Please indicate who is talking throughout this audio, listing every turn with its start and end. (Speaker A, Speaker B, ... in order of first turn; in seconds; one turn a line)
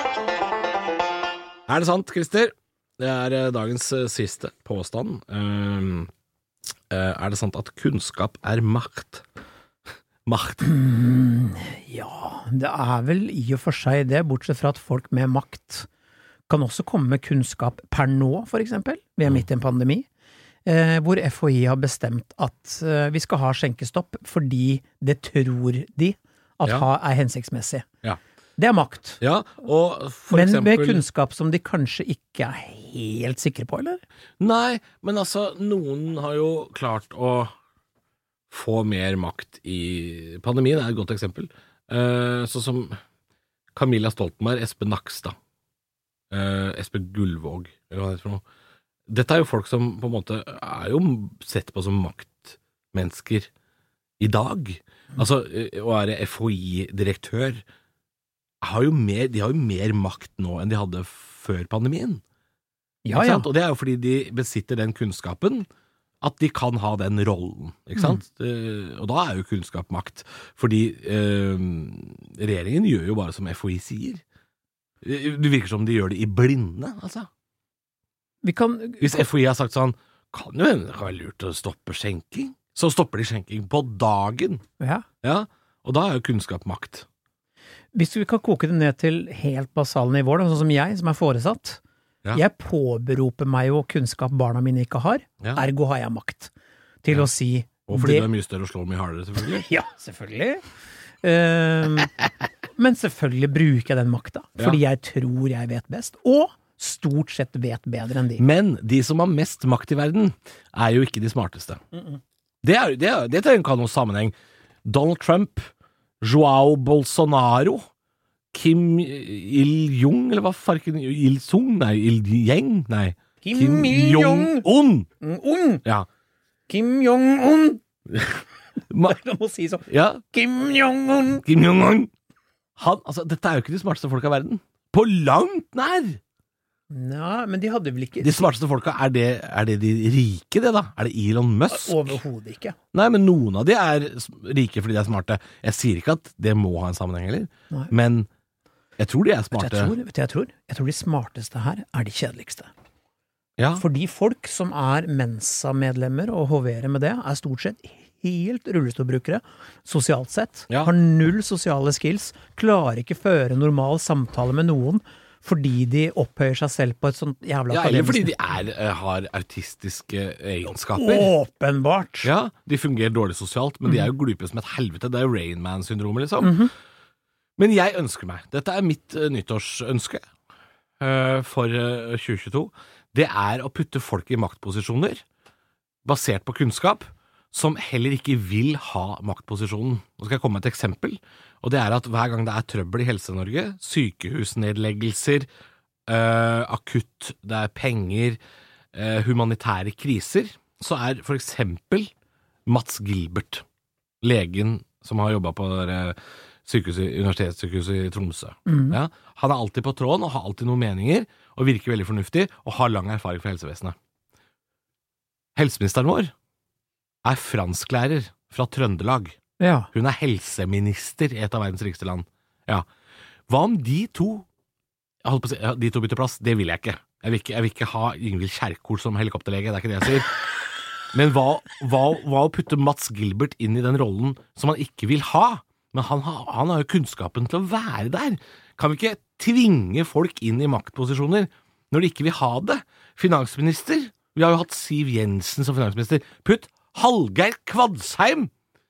Speaker A: 1.7-6.1
Speaker A: 6.9-9.2
Speaker A: 10.2-10.7
Speaker B: 10.6-15.9
Speaker B: 16.5-20.1
Speaker B: 20.6-27.9
Speaker B: 28.6-29.2
Speaker A: 29.2-31.0
Speaker B: 30.3-34.0
Speaker A: 34.4-37.5
Speaker A: 38.5-43.0
Speaker A: 43.7-45.3
Speaker A: 46.3-48.4
Speaker A: 49.1-53.5
Speaker A: 54.2-57.6
Speaker A: 58.6-62.2
Speaker B: 63.0-63.5
Speaker A: 63.1-65.7
Speaker A: 66.2-74.2
Speaker B: 68.0-68.2
Speaker A: 75.0-77.3
Speaker B: 78.4-79.3
Speaker A: 79.0-84.6
Speaker B: 84.8-85.0
Speaker A: 85.2-87.1
Speaker B: 87.9-91.8
Speaker B: 92.3-96.5
Speaker B: 97.0-98.3
Speaker A: 97.9-99.7
Speaker B: 99.5-100.6
Speaker B: 101.2-102.1
Speaker B: 102.8-108.4
Speaker A: 108.4-111.8
Speaker B: 111.9-112.2
Speaker A: 112.6-114.3
Speaker A: 114.8-115.7
Speaker A: 116.2-117.8
Speaker A: 118.5-125.1
Speaker B: 123.4-124.7
Speaker B: 125.2-125.8
Speaker B: 126.7-127.8
Speaker A: 128.1-129.2
Speaker B: 129.0-131.4
Speaker A: 129.9-130.2
Speaker A: 131.4-132.1
Speaker A: 132.8-136.2
Speaker B: 136.9-138.5
Speaker A: 138.2-142.2
Speaker B: 141.7-142.8
Speaker A: 142.9-148.3
Speaker A: 149.0-149.9
Speaker B: 149.5-152.7
Speaker A: 153.6-153.8
Speaker B: 153.8-168.3
Speaker A: 167.7-171.3
Speaker B: 170.9-172.3
Speaker A: 172.2-176.6
Speaker B: 176.4-176.7
Speaker A: 177.6-180.2
Speaker A: 181.0-185.2
Speaker A: 186.0-195.5
Speaker A: 196.1-198.4
Speaker A: 198.9-202.1
Speaker A: 202.7-203.6
Speaker A: 204.2-213.9
Speaker B: 208.7-208.9
Speaker A: 215.5-216.3
Speaker A: 217.2-219.3
Speaker B: 219.6-219.9
Speaker A: 219.9-222.8
Speaker A: 223.5-224.4
Speaker A: 225.2-230.3
Speaker A: 231.1-248.5